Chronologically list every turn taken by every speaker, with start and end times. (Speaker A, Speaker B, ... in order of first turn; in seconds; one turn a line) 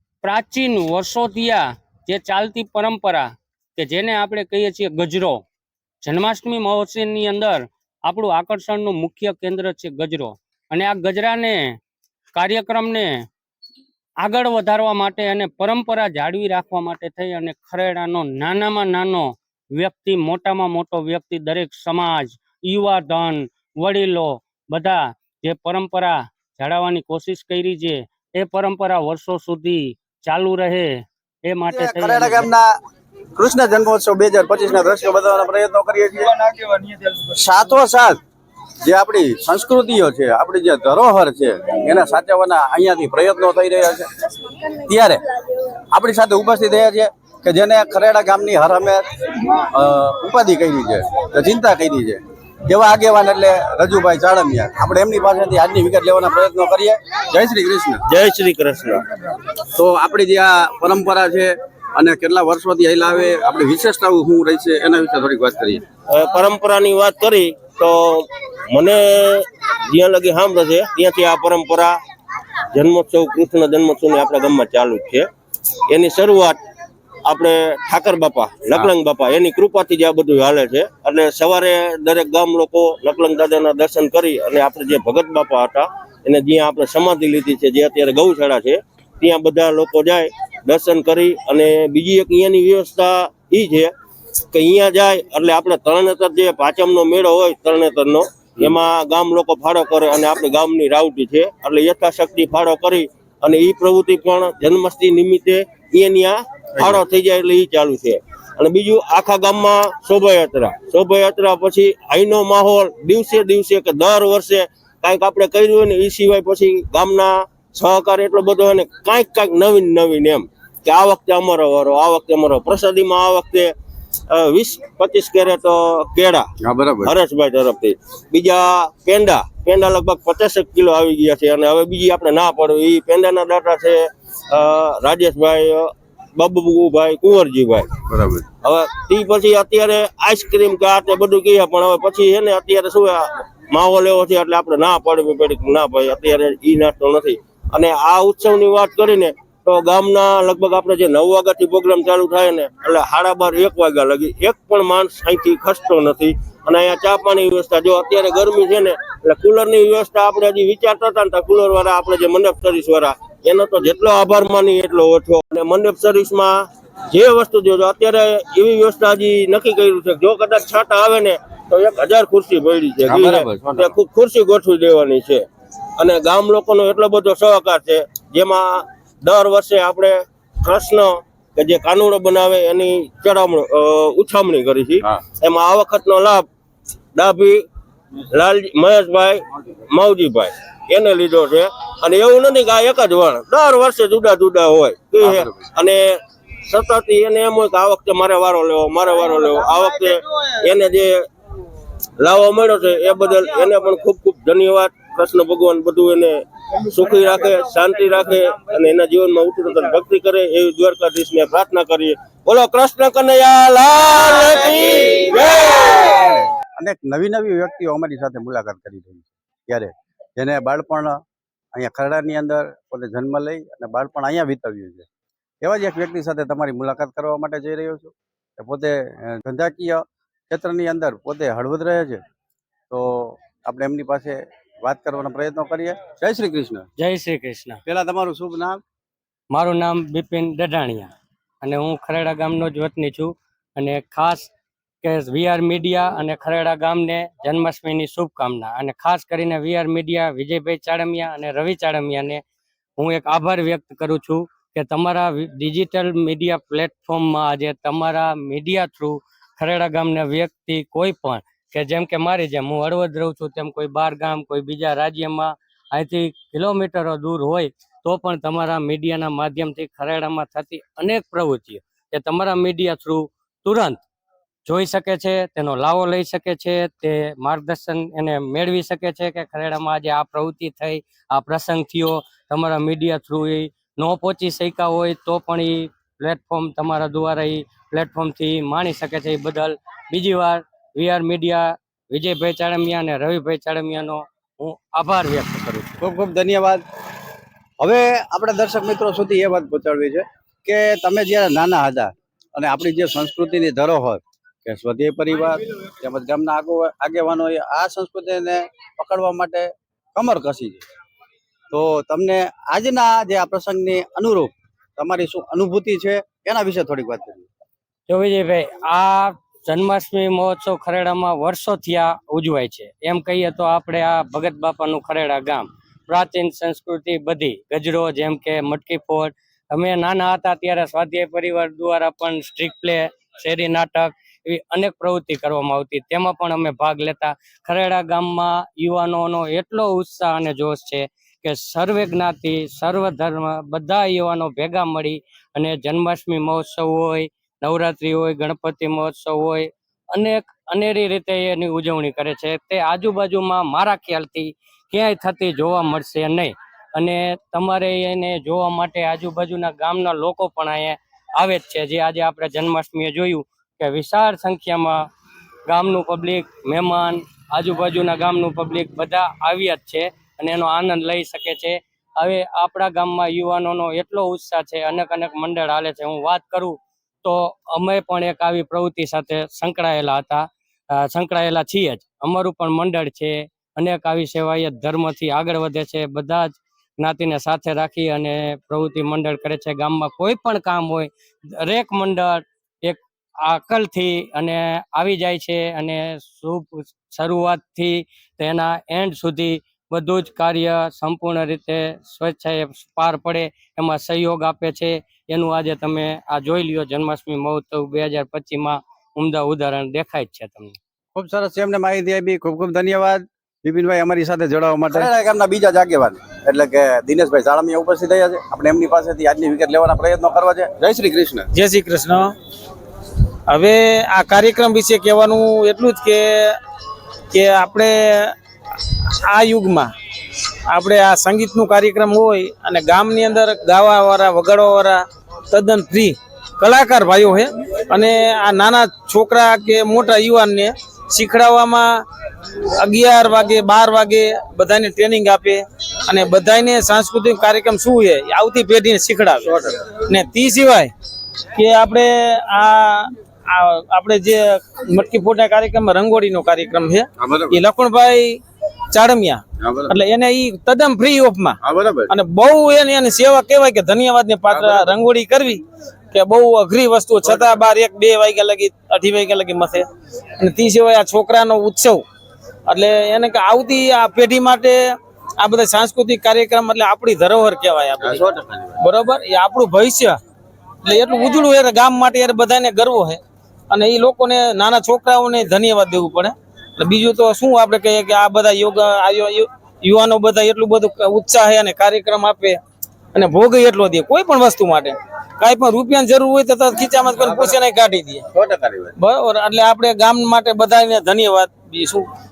Speaker A: 0.2-5.4
Speaker A: 6.0-11.8
Speaker A: 12.3-13.2
Speaker A: 14.2-32.5
Speaker B: 31.7-32.7
Speaker B: 33.4-36.3
Speaker B: 37.3-38.2
Speaker B: 38.9-44.1
Speaker B: 44.8-45.2
Speaker B: 45.9-58.0
Speaker C: 58.1-59.0
Speaker B: 59.7-65.8
Speaker C: 66.1-72.0
Speaker C: 72.7-75.3
Speaker C: 75.9-76.6
Speaker C: 77.2-93.9
Speaker C: 94.5-123.7
Speaker C: 124.3-126.5
Speaker B: 126.6-127.1
Speaker C: 127.0-137.9
Speaker B: 138.1-138.4
Speaker C: 138.6-175.5
Speaker B: 173.1-173.8
Speaker C: 176.0-186.5
Speaker C: 187.2-187.7
Speaker C: 188.3-201.3
Speaker B: 195.2-195.5
Speaker C: 202.2-215.9
Speaker B: 215.9-221.2
Speaker B: 221.7-225.1
Speaker B: 225.6-232.2
Speaker B: 232.9-236.9
Speaker D: 237.0-237.8
Speaker B: 237.9-238.8
Speaker D: 239.5-244.5
Speaker D: 245.0-252.4
Speaker D: 253.0-274.0
Speaker D: 274.7-296.0
Speaker B: 296.0-296.8
Speaker B: 297.8-310.8
Speaker B: 311.7-317.5
Speaker D: 318.1-365.1
Speaker D: 365.7-410.8
Speaker B: 411.1-421.5
Speaker E: 421.5-422.3
Speaker E: 423.5-426.6
Speaker E: 427.3-428.4
Speaker E: 429.2-429.9
Speaker E: 430.7-442.0
Speaker E: 442.8-450.9
Speaker B: 449.4-449.7
Speaker E: 451.5-458.4
Speaker B: 457.2-457.6
Speaker E: 458.9-469.9
Speaker B: 459.6-459.9
Speaker B: 461.6-462.1
Speaker B: 464.5-464.9
Speaker E: 470.4-472.0
Speaker E: 472.7-478.3
Speaker B: 478.0-478.7
Speaker E: 478.8-480.2
Speaker E: 480.8-492.6
Speaker E: 493.1-498.2
Speaker B: 497.1-497.6
Speaker B: 498.3-498.9
Speaker E: 499.0-502.1